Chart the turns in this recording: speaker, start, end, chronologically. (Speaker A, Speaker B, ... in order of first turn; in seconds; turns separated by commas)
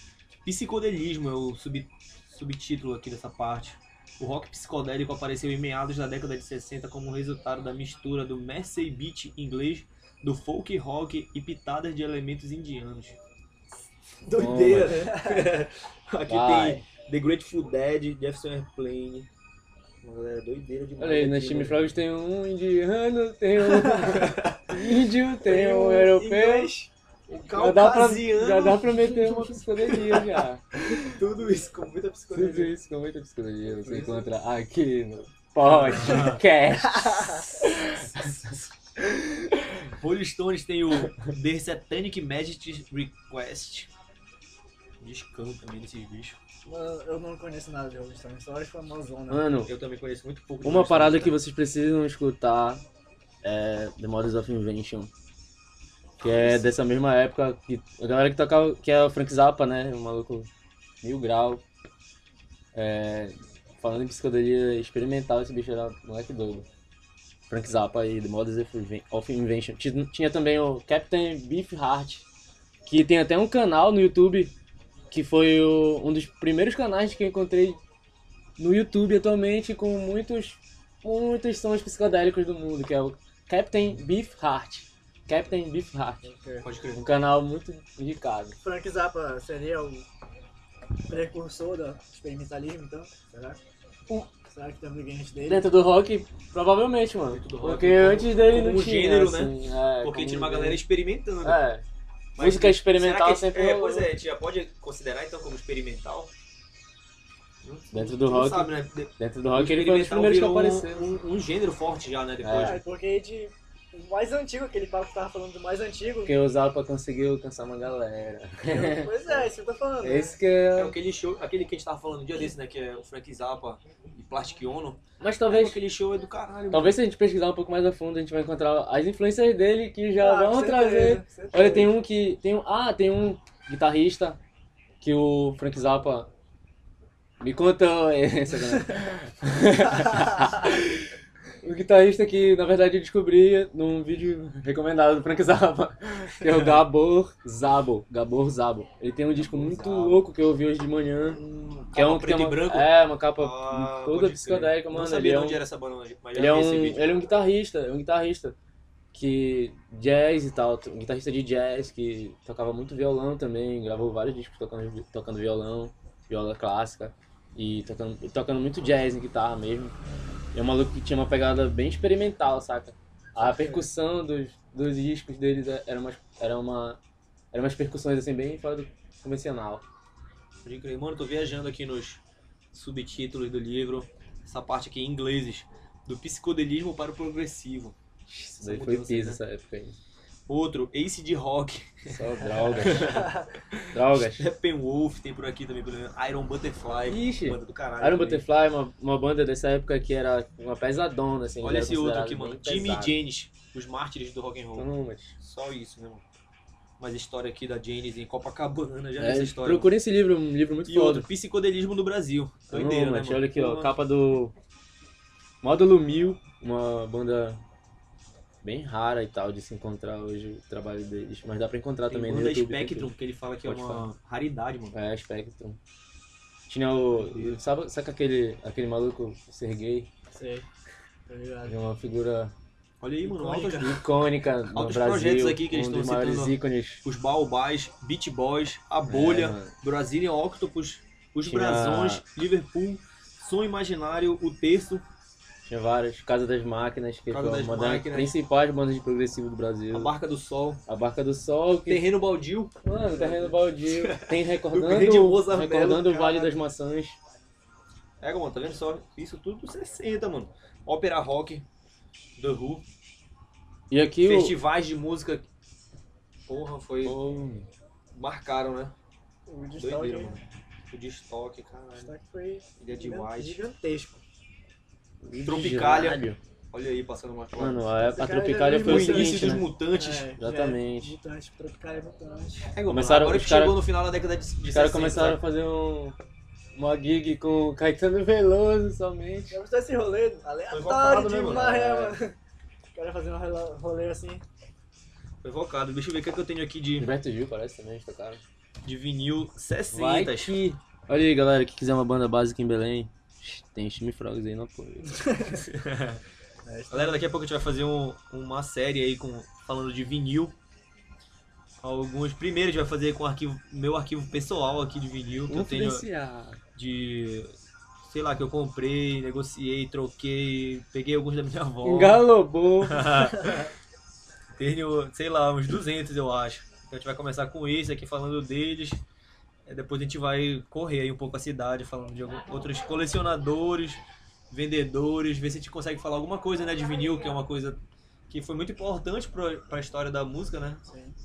Speaker A: 0.4-13.2, Speaker A: 14.2-19.3, Speaker B: 14.3-15.1, Speaker C: 14.9-15.5, Speaker B: 16.3-16.8, Speaker A: 20.0-21.9, Speaker B: 21.0-26.7, Speaker C: 23.8-24.1, Speaker A: 24.0-24.7, Speaker C: 25.4-26.9, Speaker A: 27.3-32.7, Speaker B: 27.4-30.8, Speaker B: 32.3-38.5, Speaker A: 33.9-34.1, Speaker A: 35.6-36.4, Speaker C: 36.8-37.6, Speaker A: 39.7-43.9, Speaker A: 45.0-46.4, Speaker C: 46.6-49.4, Speaker B: 49.3-49.7, Speaker A: 49.6-51.4, Speaker B: 50.6-52.8, Speaker B: 53.4-55.1, Speaker B: 56.2-60.5, Speaker B: 61.0-61.6, Speaker B: 62.7-66.7, Speaker B: 67.5-72.2, Speaker B: 72.8-74.5, Speaker B: 75.1-77.8, Speaker B: 78.6-86.3, Speaker C: 86.2-86.7, Speaker A: 86.6-87.0, Speaker B: 86.9-88.6, Speaker C: 88.6-90.0, Speaker C: 91.1-93.6, Speaker C: 94.5-95.7, Speaker B: 95.4-100.8, Speaker A: 97.3-101.6, Speaker B: 101.4-101.8, Speaker A: 102.3-106.3, Speaker B: 102.4-104.1, Speaker A: 107.6-112.8, Speaker B: 107.9-111.1, Speaker B: 112.4-112.8, Speaker C: 112.5-116.3, Speaker B: 116.2-119.1, Speaker C: 118.6-120.3, Speaker B: 120.0-120.9, Speaker A: 120.8-127.0, Speaker B: 125.2-125.8, Speaker B: 126.7-134.4, Speaker C: 130.2-131.9, Speaker B: 135.0-136.3, Speaker B: 137.4-141.1, Speaker B: 141.6-151.4, Speaker A: 146.4-146.8, Speaker A: 149.3-150.2, Speaker A: 151.3-157.2, Speaker B: 151.9-155.6, Speaker B: 156.3-158.5, Speaker B: 159.1-169.9, Speaker B: 170.5-177.0, Speaker C: 173.4-173.9, Speaker B: 177.5-179.8, Speaker A: 180.6-182.2, Speaker A: 182.7-187.9, Speaker B: 188.3-189.9, Speaker A: 188.6-189.4, Speaker A: 190.5-198.4, Speaker B: 192.1-193.3, Speaker C: 192.9-193.5, Speaker B: 193.9-194.5, Speaker B: 197.1-203.2, Speaker A: 201.6-204.9, Speaker B: 204.7-205.3, Speaker A: 205.4-206.2, Speaker A: 207.0-209.9, Speaker B: 209.2-211.3, Speaker A: 210.9-213.9, Speaker B: 212.7-214.5, Speaker B: 215.6-217.6, Speaker B: 218.6-223.1, Speaker A: 222.1-225.0, Speaker B: 223.6-224.1, Speaker B: 224.9-225.8, Speaker B: 226.7-230.1, Speaker A: 227.2-227.6, Speaker C: 230.3-230.7, Speaker C: 231.3-231.7, Speaker B: 231.7-232.5, Speaker A: 233.0-233.9, Speaker C: 233.2-234.0, Speaker B: 233.8-237.0, Speaker A: 234.7-245.0, Speaker B: 239.0-239.7, Speaker B: 241.4-242.2, Speaker B: 245.7-250.1, Speaker A: 247.3-248.3, Speaker A: 249.9-250.8, Speaker B: 250.9-252.0, Speaker A: 251.9-256.6, Speaker B: 252.8-257.2, Speaker A: 258.2-261.6, Speaker A: 262.4-262.8, Speaker B: 263.9-264.6, Speaker A: 264.2-265.4, Speaker A: 266.5-267.2, Speaker B: 267.0-267.6, Speaker A: 268.1-268.9, Speaker C: 269.5-270.4, Speaker A: 269.8-272.1, Speaker C: 272.0-274.2, Speaker A: 272.8-273.6, Speaker B: 275.2-276.4, Speaker A: 275.4-277.9, Speaker B: 277.6-279.7, Speaker C: 278.0-282.7, Speaker A: 278.6-280.3, Speaker B: 280.4-281.1, Speaker A: 282.7-285.4, Speaker B: 282.9-283.8, Speaker B: 284.7-286.1, Speaker B: 286.7-289.6, Speaker C: 289.5-292.4, Speaker A: 290.7-292.2, Speaker C: 292.9-294.4, Speaker A: 295.4-297.1, Speaker B: 297.0-298.4, Speaker A: 298.8-300.6, Speaker B: 299.9-305.2, Speaker C: 305.0-305.6, Speaker A: 305.5-306.2, Speaker C: 306.6-307.2, Speaker A: 306.9-310.5, Speaker A: 311.8-316.1, Speaker B: 315.5-316.6, Speaker A: 316.7-317.5, Speaker A: 318.0-322.3, Speaker B: 321.8-323.3, Speaker A: 322.8-323.7, Speaker A: 324.6-329.0, Speaker A: 329.6-337.8, Speaker A: 338.3-340.8, Speaker C: 340.8-341.1